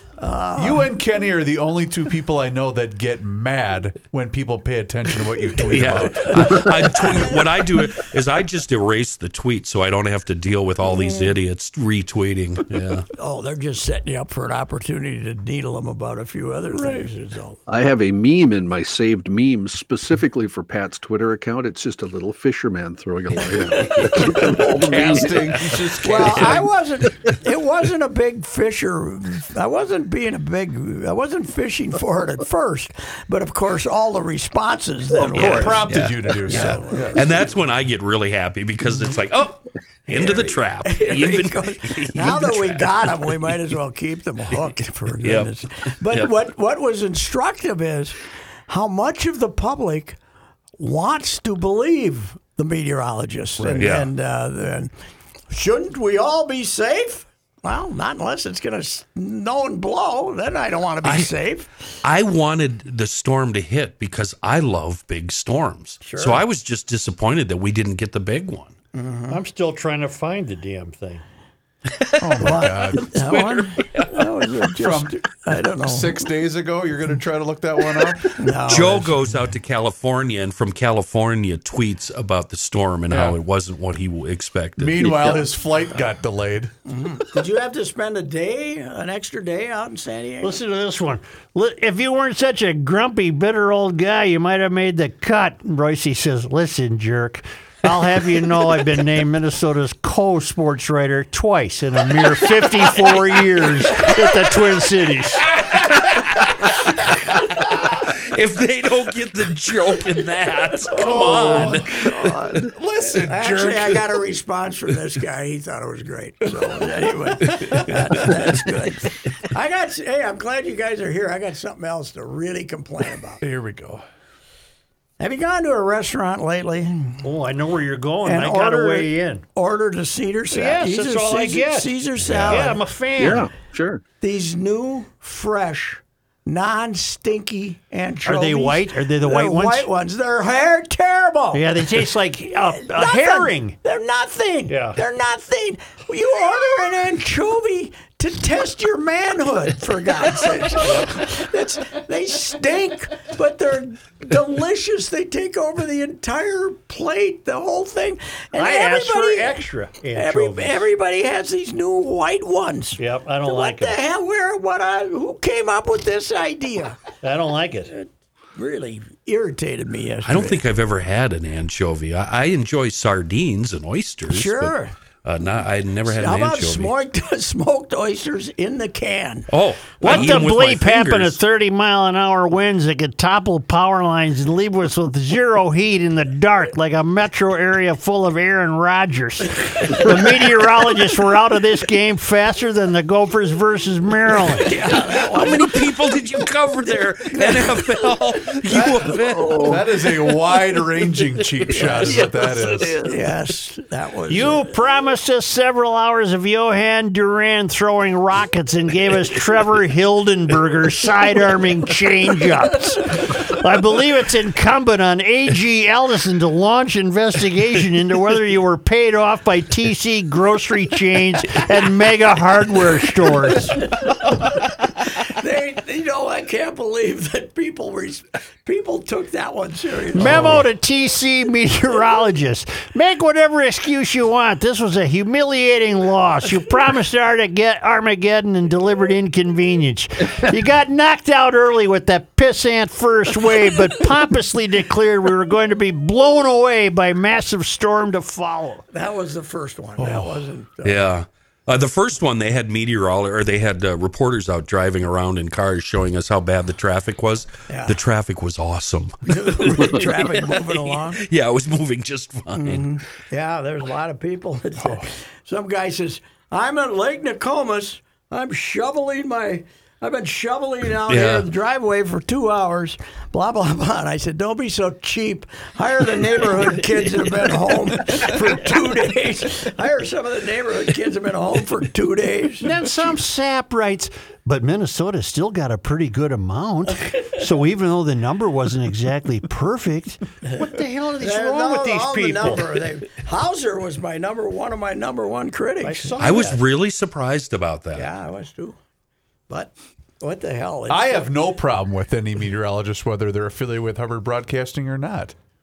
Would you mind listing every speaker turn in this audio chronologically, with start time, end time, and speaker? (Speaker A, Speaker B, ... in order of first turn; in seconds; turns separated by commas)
Speaker A: 0.2-0.9, Speaker B: 0.6-6.8, Speaker C: 5.7-13.1, Speaker A: 5.8-7.5, Speaker A: 10.8-11.3, Speaker A: 13.2-17.6, Speaker B: 16.8-17.1, Speaker D: 17.7-25.6, Speaker A: 23.5-24.9, Speaker B: 24.3-26.7, Speaker C: 25.3-26.5, Speaker A: 26.0-37.5, Speaker C: 35.3-43.5, Speaker B: 35.3-37.1, Speaker A: 40.1-50.2, Speaker C: 45.2-45.5, Speaker C: 46.0-46.3, Speaker A: 50.8-54.9, Speaker B: 53.6-53.9, Speaker C: 53.8-54.1, Speaker A: 55.5-61.7, Speaker C: 61.0-61.3, Speaker C: 62.0-68.7, Speaker A: 66.0-66.4, Speaker A: 68.9-69.4, Speaker E: 69.3-71.2, Speaker C: 71.9-74.2, Speaker B: 72.2-73.1, Speaker A: 72.4-76.2, Speaker B: 74.8-75.2, Speaker B: 75.8-78.5, Speaker A: 78.4-79.2, Speaker C: 78.7-85.5, Speaker B: 83.1-83.4, Speaker B: 84.8-86.7, Speaker A: 86.9-90.6, Speaker E: 90.4-105.4, Speaker C: 105.6-112.6, Speaker B: 110.9-114.2, Speaker A: 111.0-111.8, Speaker A: 113.1-123.4, Speaker B: 123.4-124.0, Speaker A: 125.2-127.2, Speaker E: 127.2-129.4, Speaker A: 128.2-132.8, Speaker E: 130.5-133.5, Speaker D: 133.2-134.0, Speaker A: 134.2-142.1, Speaker E: 138.2-139.9, Speaker E: 141.5-143.8, Speaker A: 142.7-159.6, Speaker E: 144.7-145.0, Speaker E: 150.8-151.1, Speaker E: 158.6-160.8, Speaker A: 160.1-167.0, Speaker E: 163.0-164.0, Speaker E: 167.2-167.9, Speaker A: 167.9-170.6, Speaker C: 170.2-176.9, Speaker A: 174.3-174.9, Speaker A: 176.1-179.5, Speaker C: 179.5-181.4, Speaker E: 180.0-194.7, Speaker A: 180.0-180.4, Speaker A: 194.6-195.8, Speaker C: 194.8-199.7, Speaker A: 197.3-197.8, Speaker A: 198.7-199.7, Speaker D: 199.4-199.8, Speaker B: 199.6-203.0, Speaker A: 201.7-202.2, Speaker D: 202.0-203.2, Speaker A: 203.0-204.7, Speaker E: 204.3-223.8, Speaker A: 223.9-224.5, Speaker A: 225.2-230.7, Speaker E: 230.1-248.8, Speaker B: 230.2-230.6, Speaker A: 248.9-251.1, Speaker B: 250.0-250.4, Speaker C: 250.8-262.9, Speaker A: 257.7-258.0, Speaker A: 259.3-261.2, Speaker A: 262.6-282.7, Speaker B: 264.8-265.1, Speaker C: 271.1-271.5, Speaker E: 282.6-292.8, Speaker A: 291.2-296.4, Speaker E: 295.8-296.6, Speaker C: 296.2-298.1, Speaker A: 297.9-298.8, Speaker A: 299.5-301.2, Speaker B: 300.9-305.3